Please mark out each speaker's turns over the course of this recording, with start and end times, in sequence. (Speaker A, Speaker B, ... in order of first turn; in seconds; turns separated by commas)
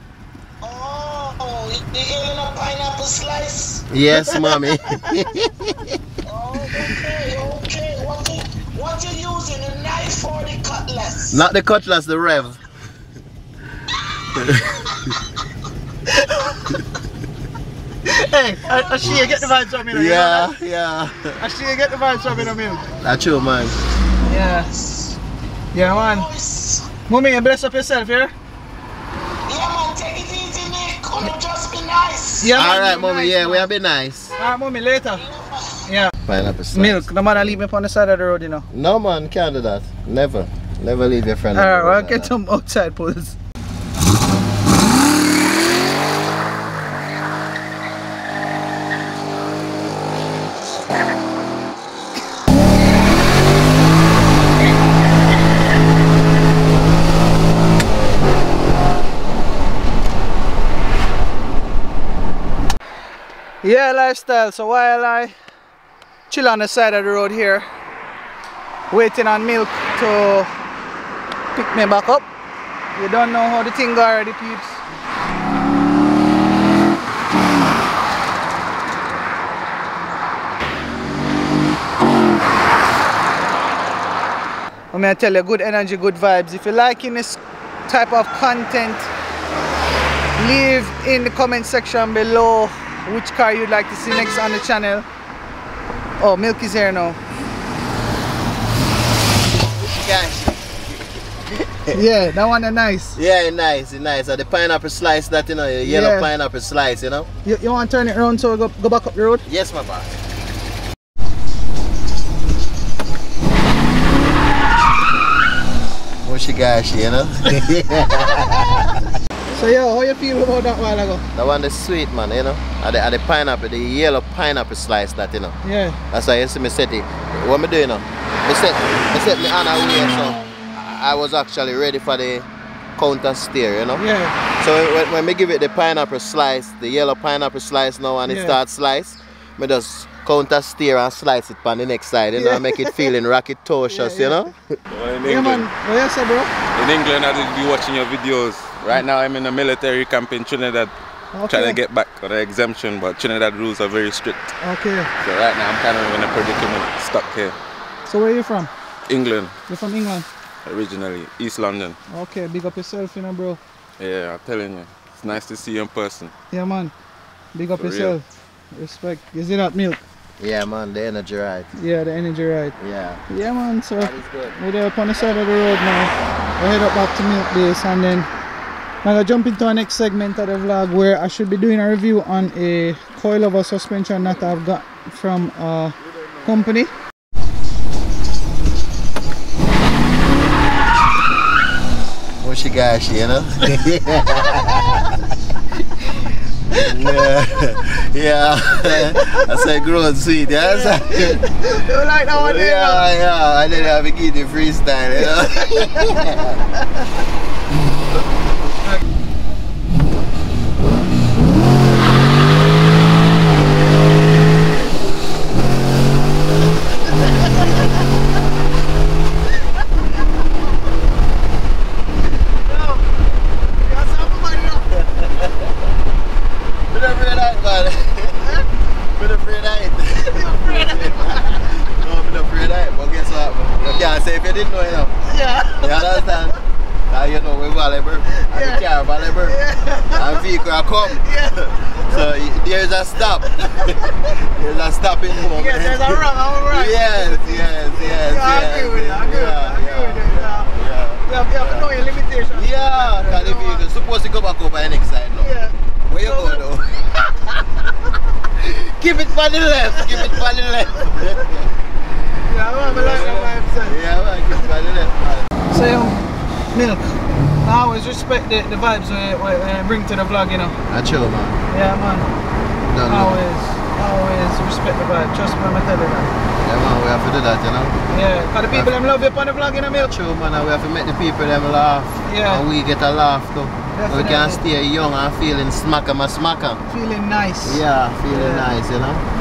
Speaker A: 0.6-4.6, Speaker B: 3.9-6.0, Speaker A: 6.2-11.4, Speaker B: 11.3-12.6, Speaker B: 14.3-14.9, Speaker C: 18.1-20.5, Speaker A: 18.6-19.6, Speaker B: 19.9-21.4, Speaker C: 21.4-22.9, Speaker A: 22.3-25.2, Speaker B: 23.0-23.8, Speaker C: 24.2-24.7, Speaker C: 25.7-26.3, Speaker A: 25.8-26.9, Speaker C: 27.1-28.3, Speaker A: 29.5-32.7, Speaker C: 32.4-33.7, Speaker B: 32.5-34.4, Speaker C: 34.4-35.2, Speaker A: 35.1-35.9, Speaker C: 35.9-36.1, Speaker B: 36.2-37.5, Speaker C: 36.7-38.6, Speaker B: 38.7-42.3, Speaker C: 41.5-43.4, Speaker C: 63.6-65.3, Speaker C: 66.3-67.7, Speaker C: 68.9-70.5, Speaker C: 71.5-72.3, Speaker C: 72.9-74.8, Speaker C: 84.9-89.1, Speaker C: 90.4-95.0, Speaker C: 96.2-97.2, Speaker B: 99.7-102.0, Speaker C: 101.9-103.2, Speaker B: 103.1-107.3, Speaker C: 105.8-106.3, Speaker C: 107.4-109.5, Speaker B: 109.4-110.2, Speaker B: 116.2-119.0, Speaker C: 119.5-121.2, Speaker B: 121.3-125.6, Speaker C: 125.6-126.0, Speaker B: 126.1-144.8, Speaker C: 133.9-134.4, Speaker C: 138.2-138.6, Speaker C: 142.3-143.1, Speaker C: 143.9-144.4, Speaker D: 144.9-145.7, Speaker C: 145.2-146.5, Speaker D: 146.8-150.9, Speaker C: 151.3-151.8, Speaker D: 151.5-154.5, Speaker C: 154.6-155.1, Speaker D: 155.2-157.5, Speaker C: 158.1-158.7, Speaker D: 159.1-159.6, Speaker C: 159.7-160.2, Speaker D: 160.6-162.0, Speaker C: 162.1-163.6, Speaker D: 164.0-166.3, Speaker C: 166.5-166.9, Speaker C: 167.5-170.0, Speaker D: 167.8-168.2, Speaker B: 170.4-171.7, Speaker C: 171.8-172.8, Speaker B: 172.8-173.2, Speaker C: 173.3-178.3, Speaker B: 173.9-174.6, Speaker C: 179.0-186.9, Speaker B: 192.4-195.0, Speaker B: 196.7-201.4, Speaker C: 198.9-199.4, Speaker C: 200.6-203.1, Speaker B: 202.3-206.6, Speaker C: 205.2-207.0, Speaker C: 222.6-223.1, Speaker C: 223.8-224.9, Speaker B: 224.9-225.7, Speaker B: 226.9-235.1, Speaker C: 230.2-231.6, Speaker C: 235.2-236.4, Speaker B: 235.7-236.6, Speaker B: 237.1-239.6, Speaker C: 238.3-240.4, Speaker B: 240.1-251.9, Speaker C: 241.1-242.2, Speaker C: 243.7-244.1, Speaker C: 245.4-250.7, Speaker C: 251.2-253.8, Speaker B: 252.5-255.5, Speaker C: 255.4-256.6, Speaker B: 256.1-257.9, Speaker B: 258.5-261.7, Speaker C: 260.1-260.4, Speaker C: 262.4-264.0, Speaker B: 262.8-265.5, Speaker C: 265.7-266.2, Speaker C: 266.7-270.8, Speaker B: 270.9-271.6, Speaker C: 271.7-272.3, Speaker B: 272.8-273.4, Speaker C: 273.1-276.3, Speaker B: 276.6-278.0, Speaker C: 278.1-280.1, Speaker B: 279.9-286.8, Speaker C: 282.2-282.6, Speaker C: 283.9-284.6, Speaker C: 286.9-288.7, Speaker B: 287.6-289.2